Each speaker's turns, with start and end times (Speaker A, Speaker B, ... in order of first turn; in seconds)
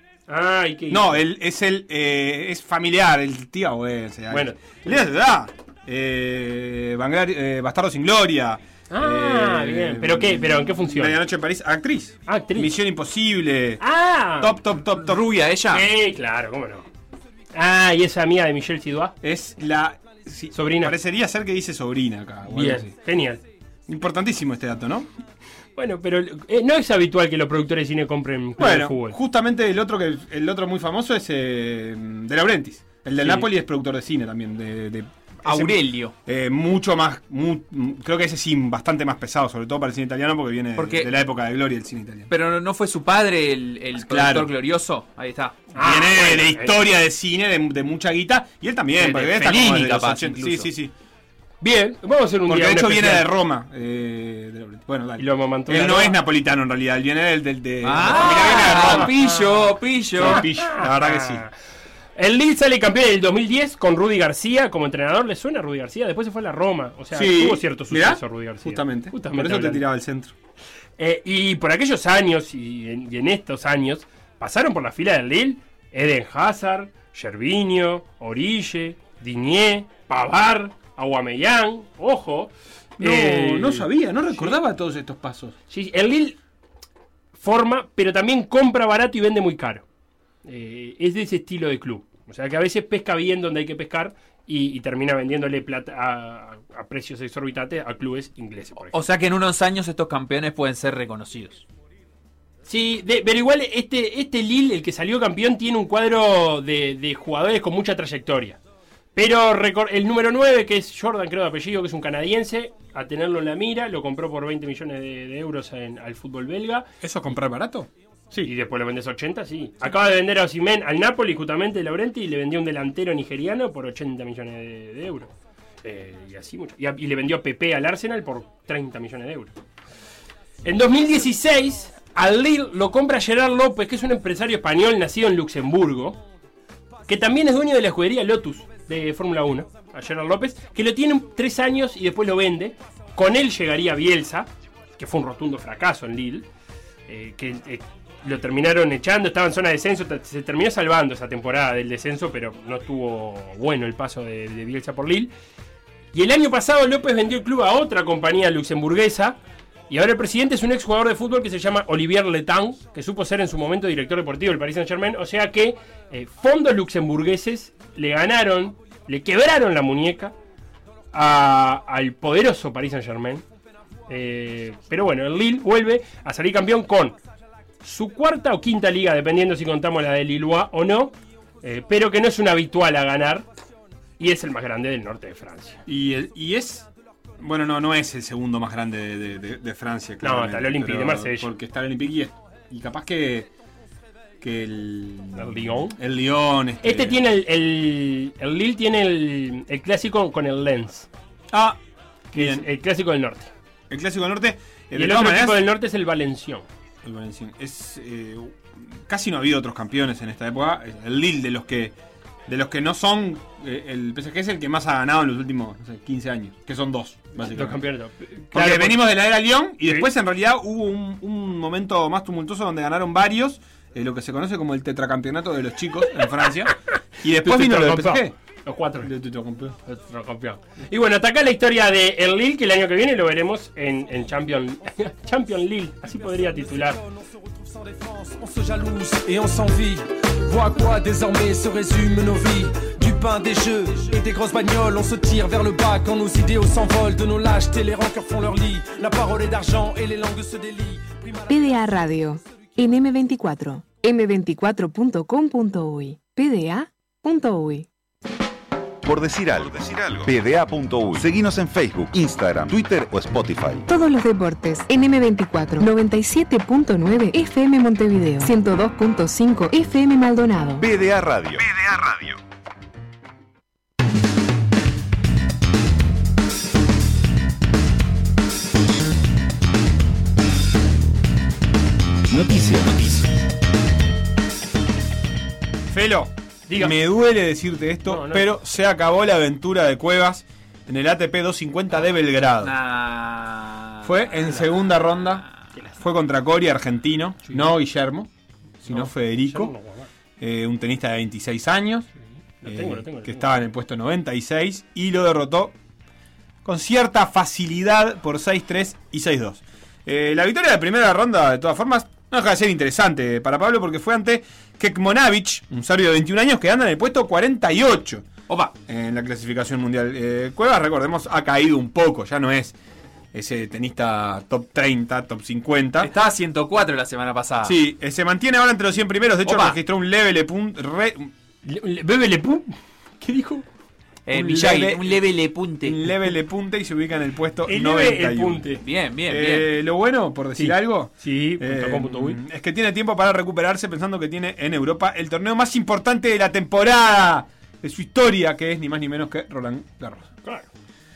Speaker A: 0.3-1.2, 4.3-5.0, 8.9-11.2, 12.3-12.7, 13.8-14.6, 15.7-16.9, 17.5-19.1, 20.5-21.0, 22.5-23.4, 25.8-29.2, 45.8-46.8, 51.6-53.3, 55.2-56.2, 58.1-59.7, 60.2-61.5, 62.2-69.8, 71.0-84.6, 85.7-86.4, 87.4-89.8, 90.5-99.0, 102.7-108.6, 109.2-116.9, 118.4-125.3, 125.8-129.5, 130.7-136.2, 137.1-146.5, 147.1-155.3, 156.1-159.4, 159.9-170.3, 171.1-173.4, 174.1-177.2, 177.8-183.5, 184.2-185.8, 190.2-191.5, 195.4-196.0, 196.8-201.1, 202.3-203.5, 204.9-206.7, 217.5-219.1, 227.4-229.1, 229.9-237.0, 286.7-287.0, 288.1-288.5, 297.5-297.7, 298.8-300.1, 302.6-303.6, 331.6-333.7, 337.7-338.8, 340.6-342.4, 350.4-350.7
Speaker B: 0.9-13.8, 14.4-15.3, 19.2-22.9, 23.9-25.1, 28.6-42.3, 44.0-44.5, 45.8-50.9, 52.5-59.1, 60.1-61.5, 67.1-70.3, 83.0-85.6, 117.0-118.5, 185.9-186.9, 187.4-193.5, 194.4-197.2, 201.5-201.8, 202.3-202.7, 203.9-205.7, 207.0-211.9, 212.5-217.8, 218.5-228.3, 229.0-229.8, 285.9-292.7, 294.0-295.5, 296.0-298.3, 298.8-299.8, 300.4-302.1, 302.6-305.8, 306.6-318.3, 318.9-322.8, 323.3-326.1, 327.6-331.3, 334.3-335.2, 335.8-338.7, 339.3-350.3
Speaker C: 15.0-15.9, 35.5-36.1, 40.8-41.1, 42.3-45.6, 49.0-50.7, 57.8-60.5, 98.9-101.7, 292.6-294.6, 326.0-327.8, 329.5-329.8, 334.3-336.2, 338.8-339.7
Speaker D: 236.1-252.0
Speaker E: 251.5-257.9, 263.9-270.9
Speaker F: 259.0-263.9, 270.8-272.4, 282.3-283.3